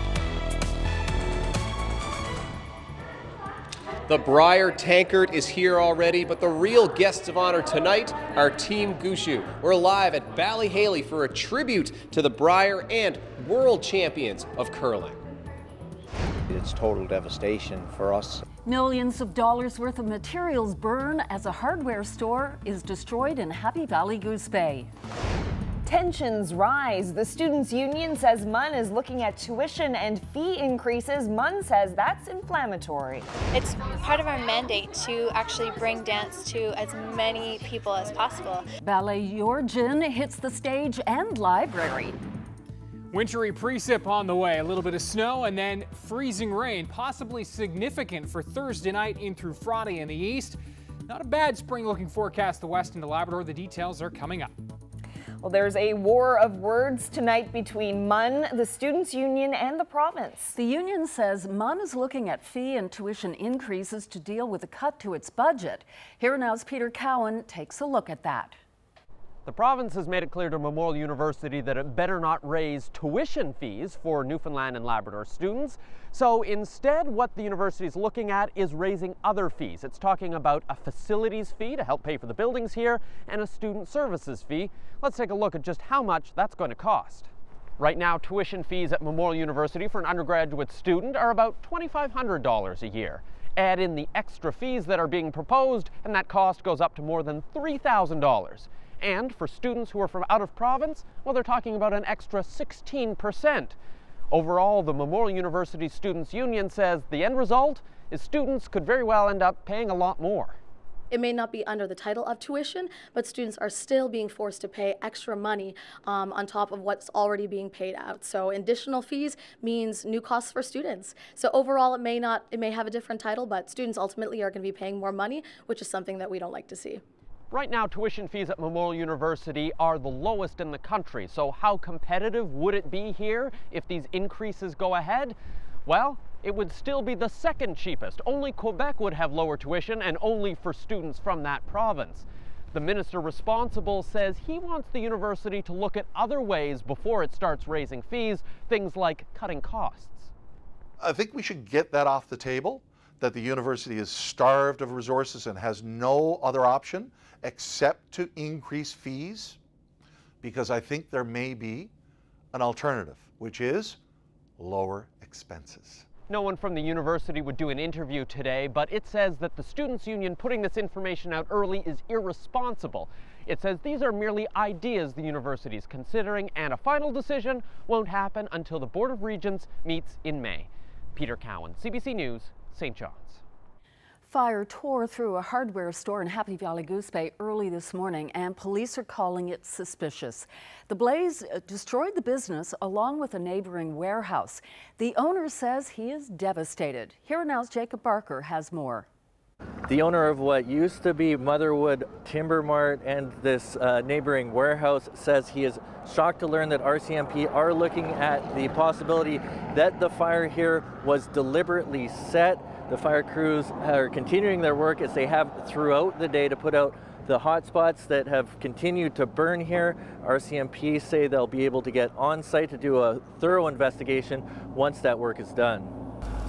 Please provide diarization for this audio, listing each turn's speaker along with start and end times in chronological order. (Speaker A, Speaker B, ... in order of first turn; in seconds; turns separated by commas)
Speaker A: 4.1-15.2, Speaker B: 16.5-18.4, Speaker C: 18.6-24.9, Speaker D: 25.9-33.3, Speaker E: 33.5-38.7, Speaker C: 38.8-42.2, Speaker F: 43.1-54.6, Speaker D: 55.4-60.5, Speaker C: 60.5-68.6, Speaker G: 69.5-103.8, Speaker G: 104.3-110.6, Speaker H: 111.1-127.0, Speaker G: 127.5-150.3, Speaker I: 151.0-159.6, Speaker I: 160.4-161.9, Speaker I: 162.5-164.0, Speaker I: 164.6-166.1, Speaker G: 166.3-183.4, Speaker C: 184.3-199.1, Speaker J: 199.9-225.9